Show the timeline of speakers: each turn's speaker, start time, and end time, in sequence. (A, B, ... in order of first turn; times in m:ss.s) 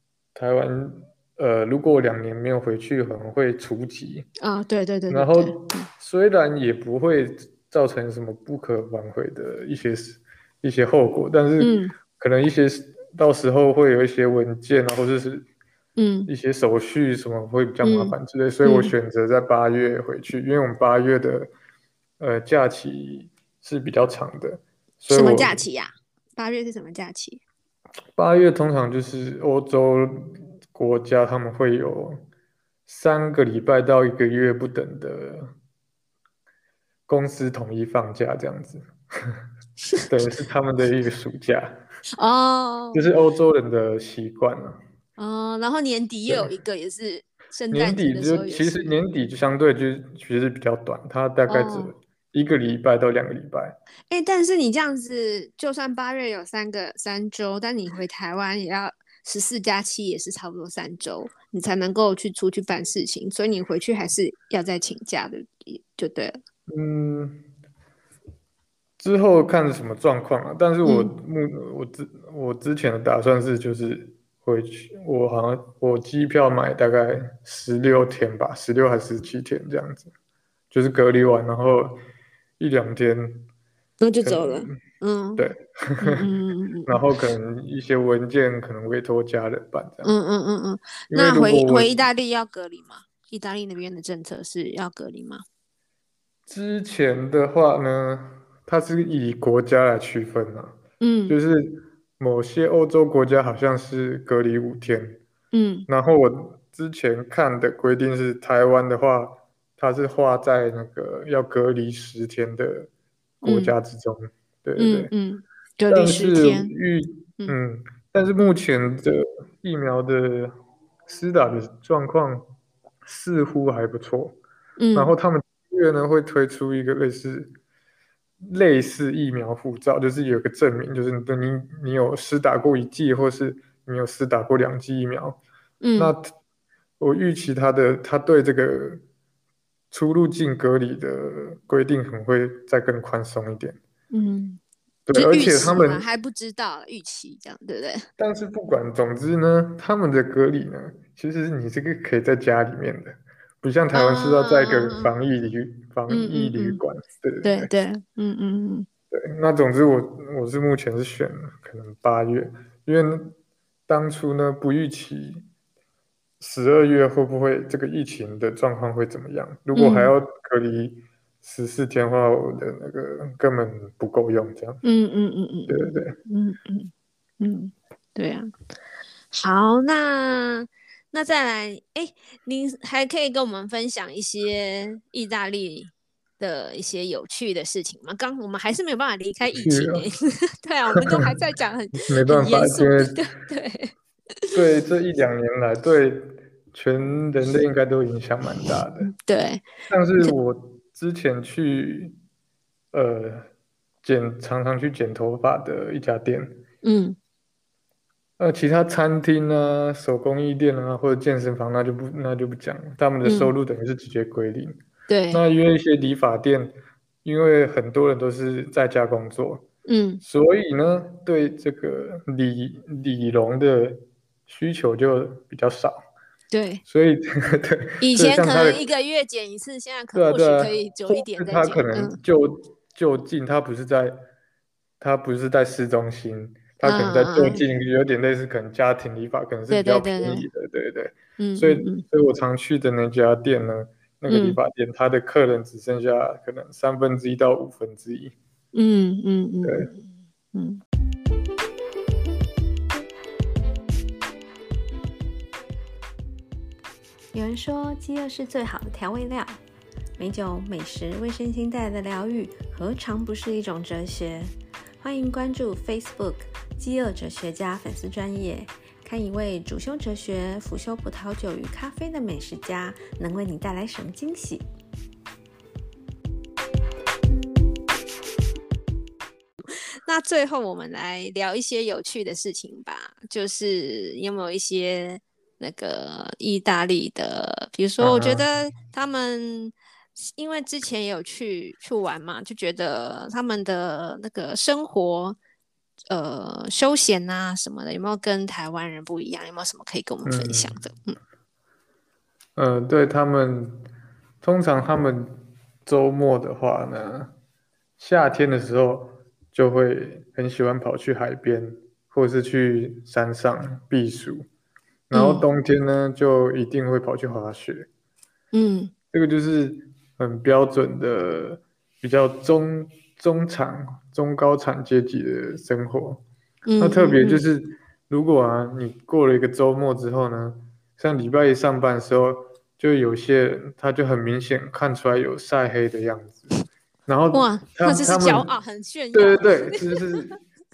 0:00.3-0:04.3 A
0:04.4-0:05.9 B
0:05.1-0:15.5 A
0:11.6-0:12.0 B
0:16.0-0:16.3 B
0:16.3-0:21.5 A
0:17.8-0:18.9 B
0:22.2-0:25.5 A
0:25.1-0:27.4 B
0:28.2-0:32.2 A
0:32.9-0:35.5 A
0:37.1-0:39.4 A
0:40.1-0:41.8 A
0:42.2-0:43.0 B
0:42.9-0:44.8 A
0:45.2-0:48.9 B
0:47.7-0:53.8 A
0:51.5-0:51.9 B
0:54.1-1:06.4 B
1:06.7-1:07.4 A
1:09.0-1:20.1 A
1:10.8-1:11.1 B
1:20.7-1:22.0 A
1:22.6-1:23.5 A
1:24.0-1:25.4 B
1:24.2-1:24.8 A
1:25.4-1:26.3 A
1:26.0-1:27.0 B
1:26.9-1:30.1 A
1:30.0-1:35.4 B
1:31.1-1:31.9 A
1:36.5-1:40.8 A
1:41.0-1:41.4 B
1:41.3-1:45.2 A
1:45.5-1:45.9 B
1:45.9-1:52.9 A
1:53.4-1:53.7 B
1:53.4-1:55.1 A
1:54.8-1:56.7 B
1:55.9-2:00.5 A
2:01.0-2:02.5 A
2:03.0-2:04.4 A
2:04.8-2:05.1 B
2:04.9-2:07.5 A
2:08.4-2:15.4 A
2:15.8-2:16.1 B
2:16.0-2:16.3 A
2:17.0-2:19.0 A
2:19.9-2:23.8 A
2:24.1-2:24.6 B
2:25.1-2:26.0 A
2:25.1-2:28.1 B
2:28.2-2:37.7 A
2:33.9-2:35.1 B
2:36.1-2:36.8 B
2:37.4-2:38.9 B
2:39.1-2:43.3 A
2:43.9-2:45.4 A
2:46.4-2:54.8 A
2:49.7-2:50.1 B
2:54.8-2:58.5 B
2:55.7-2:56.2 A
2:59.3-3:14.5 B
3:09.6-3:10.0 A
3:12.0-3:13.2 A
3:14.5-3:19.1 A
3:19.0-3:20.4 B
3:19.9-3:22.2 A
3:22.9-3:23.5 A
3:24.0-3:26.6 A
3:26.8-3:27.2 B
3:28.4-3:34.8 A
3:33.2-3:33.5 B
3:35.1-3:35.4 B
3:35.3-3:39.6 A
3:39.8-3:40.2 B
3:40.2-3:46.0 A
3:46.5-3:46.8 B
3:46.9-3:48.8 A
3:48.0-3:52.2 B
3:50.1-3:54.2 A
3:55.0-4:08.3 A
3:56.8-3:57.6 B
3:59.7-4:00.4 B
4:01.4-4:02.0 B
4:04.3-4:04.6 B
4:08.7-4:10.8 B
4:09.6-4:09.9 A
4:17.3-4:19.5 C
4:20.2-4:24.5 C
4:25.0-4:34.6 C
4:40.0-4:55.4 B
4:48.0-4:48.5 A
4:56.1-5:01.2 B
5:00.2-5:00.7 A
5:02.6-5:03.8 A
5:04.4-5:07.3 A
5:08.0-5:14.4 A
5:15.1-5:17.9 A
5:15.1-5:15.4 B
5:18.5-5:18.9 B
5:19.1-5:26.2 A
5:26.6-5:27.4 B
5:26.8-5:36.5 A
5:37.1-5:38.5 A
5:37.3-5:40.3 B
5:39.1-5:40.3 A